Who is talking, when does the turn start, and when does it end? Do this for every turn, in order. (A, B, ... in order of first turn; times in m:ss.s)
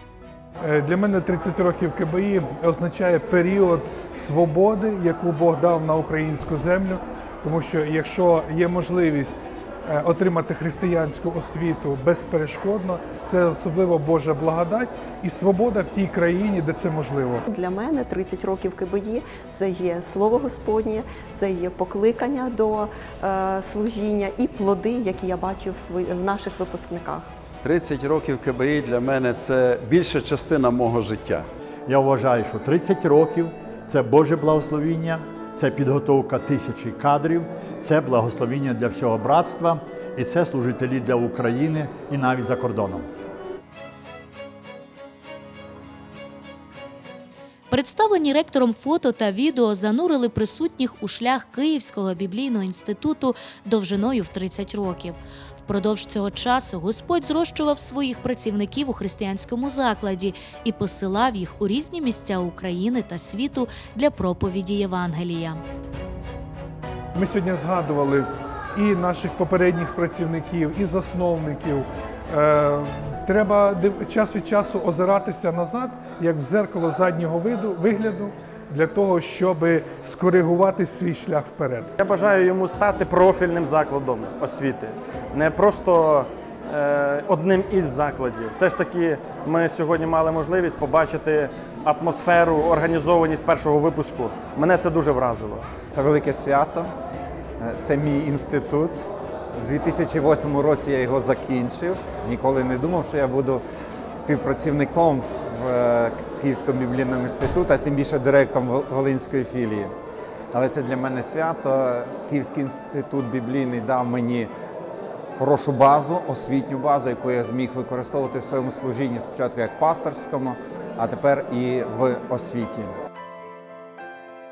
0:00.6-0:17.4 A
0:17.5-0:27.3 B
0:27.6-0:31.5 C
0:31.9-0:43.1 D
0:47.7-1:05.6 E
1:07.1-1:21.9 A
1:22.0-1:35.7 F
1:35.9-1:36.9 G
1:37.6-1:39.0 G
1:39.6-1:43.6 G
1:44.2-1:49.9 G
1:50.5-1:54.5 G
1:55.4-2:02.9 G